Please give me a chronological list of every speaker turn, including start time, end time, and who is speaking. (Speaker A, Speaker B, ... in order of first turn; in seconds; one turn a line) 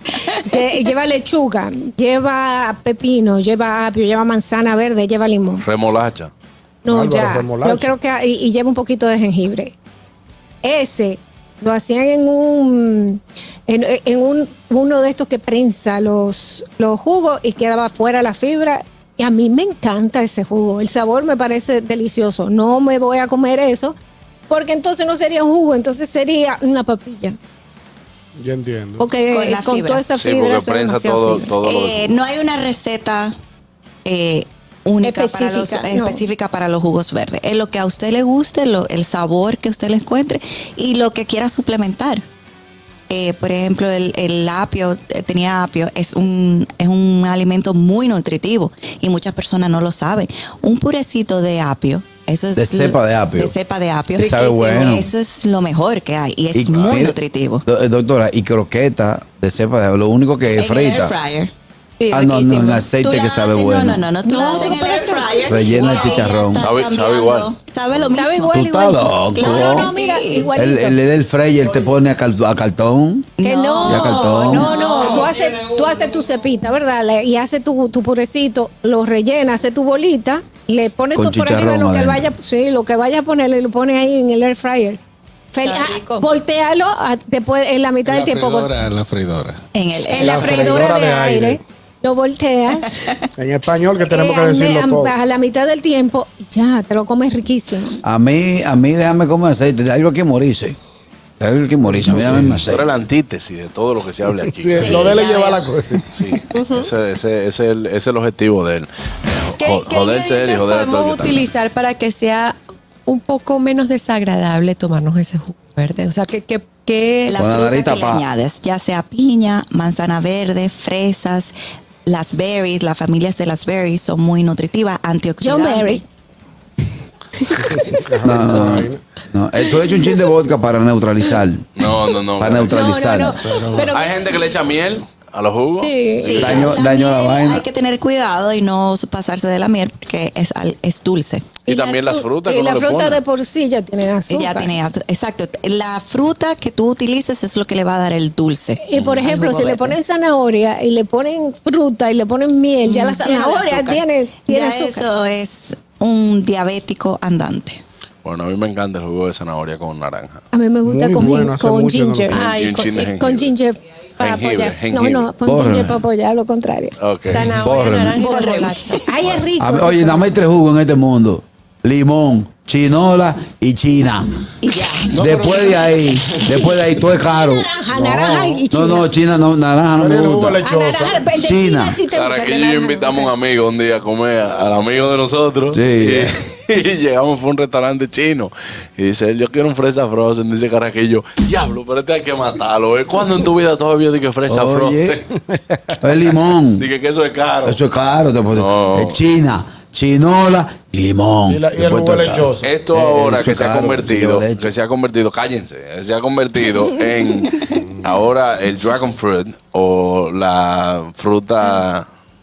Speaker A: 0.3-5.7
Speaker B: 5.6-6.3
Speaker A: 6.8-9.8
Speaker C: 6.9-7.9
Speaker A: 10.6-23.9
Speaker A: 24.5-27.4
Speaker C: 28.4-29.1
Speaker A: 29.0-31.5
Speaker D: 29.3-30.0
Speaker B: 30.1-32.1
Speaker D: 31.6-33.4
Speaker D: 34.0-42.2
Speaker A: 35.0-36.2
Speaker D: 43.1-57.6
Speaker E: 52.6-53.5
Speaker E: 54.1-55.1
Speaker E: 56.5-61.1
Speaker B: 56.7-57.0
Speaker D: 60.6-61.5
Speaker F: 62.0-62.9
Speaker E: 62.1-64.1
Speaker D: 63.0-68.6
Speaker F: 64.2-65.9
Speaker A: 64.3-66.0
Speaker E: 65.4-66.6
Speaker B: 66.6-67.5
Speaker A: 68.1-71.0
Speaker E: 68.5-69.9
Speaker D: 69.4-70.5
Speaker E: 70.5-73.3
Speaker D: 73.4-75.2
Speaker A: 73.4-85.0
Speaker E: 73.8-74.8
Speaker E: 81.1-82.3
Speaker A: 85.5-88.7
Speaker F: 85.6-86.3
Speaker G: 88.1-89.6
Speaker D: 89.7-90.6
Speaker A: 90.1-93.2
Speaker C: 90.2-91.6
Speaker C: 93.4-95.1
Speaker A: 94.1-98.0
Speaker E: 98.0-100.8
Speaker E: 101.4-102.9
Speaker C: 101.9-102.5
Speaker B: 102.6-105.2
Speaker C: 104.5-106.1
Speaker D: 104.8-105.6
Speaker F: 105.2-105.5
Speaker B: 106.1-111.5
Speaker F: 106.5-106.9
Speaker F: 109.6-117.4
Speaker D: 117.3-121.5
Speaker E: 117.3-118.2
Speaker D: 122.1-126.0
Speaker A: 125.4-126.0
Speaker C: 127.6-129.0
Speaker E: 128.2-131.7
Speaker B: 131.8-132.8
Speaker E: 132.4-133.4
Speaker A: 132.7-134.3
Speaker G: 133.4-133.9
Speaker B: 133.9-136.8
Speaker A: 135.8-136.3
Speaker D: 136.2-141.6
Speaker E: 136.2-137.7
Speaker B: 141.7-143.2
Speaker A: 141.7-144.7
Speaker D: 144.3-150.0
Speaker A: 148.8-155.1
Speaker B: 148.9-149.3
Speaker D: 152.8-157.8
Speaker B: 158.2-160.4
Speaker A: 160.5-166.9
Speaker C: 160.8-162.4
Speaker F: 162.3-163.1
Speaker B: 162.3-163.5
Speaker B: 164.2-165.3
Speaker E: 165.4-166.0
Speaker B: 167.0-167.5
Speaker F: 167.3-169.0
Speaker E: 167.3-168.2
Speaker D: 168.1-169.1
Speaker A: 169.0-170.3
Speaker E: 169.6-174.4
Speaker D: 174.6-175.2
Speaker G: 175.1-176.6
Speaker E: 175.1-177.7
Speaker A: 177.3-179.1
Speaker C: 177.9-178.6
Speaker E: 178.7-180.6
Speaker C: 179.9-181.3
Speaker A: 180.6-183.3
Speaker E: 181.3-182.0
Speaker B: 182.1-195.2
Speaker E: 185.7-186.3
Speaker E: 194.5-195.2
Speaker C: 195.5-196.0
Speaker E: 196.0-196.9
Speaker B: 196.8-197.8
Speaker E: 197.6-204.7
Speaker B: 198.5-199.2
Speaker C: 201.5-202.7
Speaker B: 202.6-212.1
Speaker C: 207.7-208.1